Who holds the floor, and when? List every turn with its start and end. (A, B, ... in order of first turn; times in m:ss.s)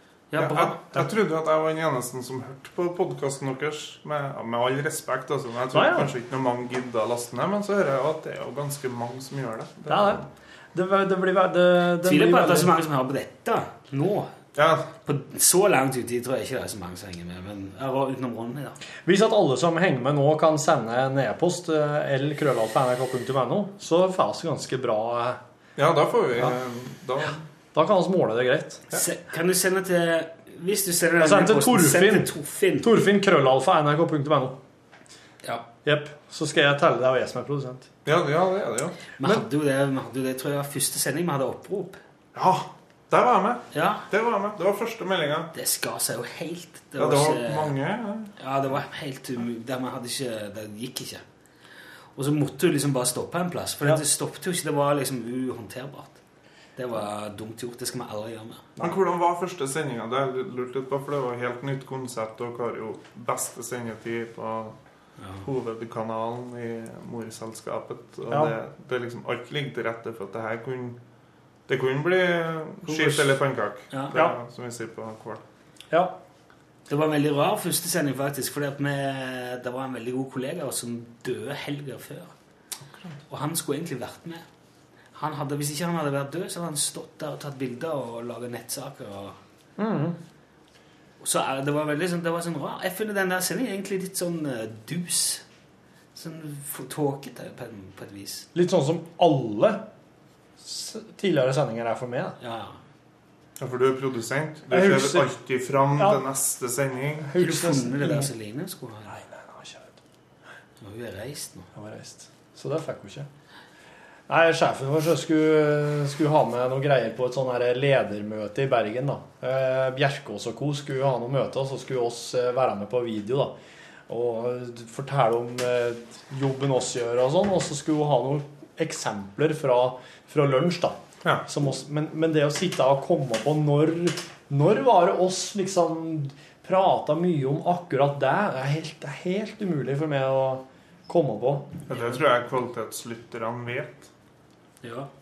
0:00.3-0:00.8 A
0:00.4-0:10.2 B
0:05.7-0:06.1 C
0:09.9-0:12.7 C
0:12.0-0:14.3 A
0:14.6-0:14.9 B
0:15.0-0:18.8 A
0:19.1-0:25.4 C
0:25.8-0:27.4 B
0:27.7-0:28.8 C
0:28.9-0:32.9 A
0:31.2-0:34.6 C
0:35.8-0:37.9 C
0:38.1-0:39.1 B
0:39.2-0:42.0 A
0:42.4-0:45.5 B
0:43.7-0:44.1 A
0:45.5-0:47.7 A
0:47.0-0:48.3 B
0:48.4-0:51.2 A
0:52.2-0:56.2 A
0:56.8-0:58.7 A
0:58.8-1:04.8 B
1:05.4-1:11.0 B
1:11.7-1:15.4 B
1:15.9-1:16.2 C
1:16.9-1:22.3 A
1:22.9-1:23.2 B
1:23.3-1:24.5 A
1:25.1-1:29.4 A
1:29.8-1:30.2 C
1:31.2-1:35.4 A
1:36.2-1:38.5 A
1:38.6-1:39.8 C
1:40.6-1:42.4 C
1:42.4-1:42.8 A
1:43.6-1:47.3 B
1:44.7-1:45.3 C
1:46.0-1:46.2 C
1:47.3-1:48.3 C
1:47.4-1:49.2 A
1:49.1-1:49.9 C
1:50.8-1:51.7 A
1:51.8-1:53.3 C
1:54.3-2:03.6 C
2:04.1-2:21.8 C
2:21.9-2:24.1 B
2:24.8-2:25.1 A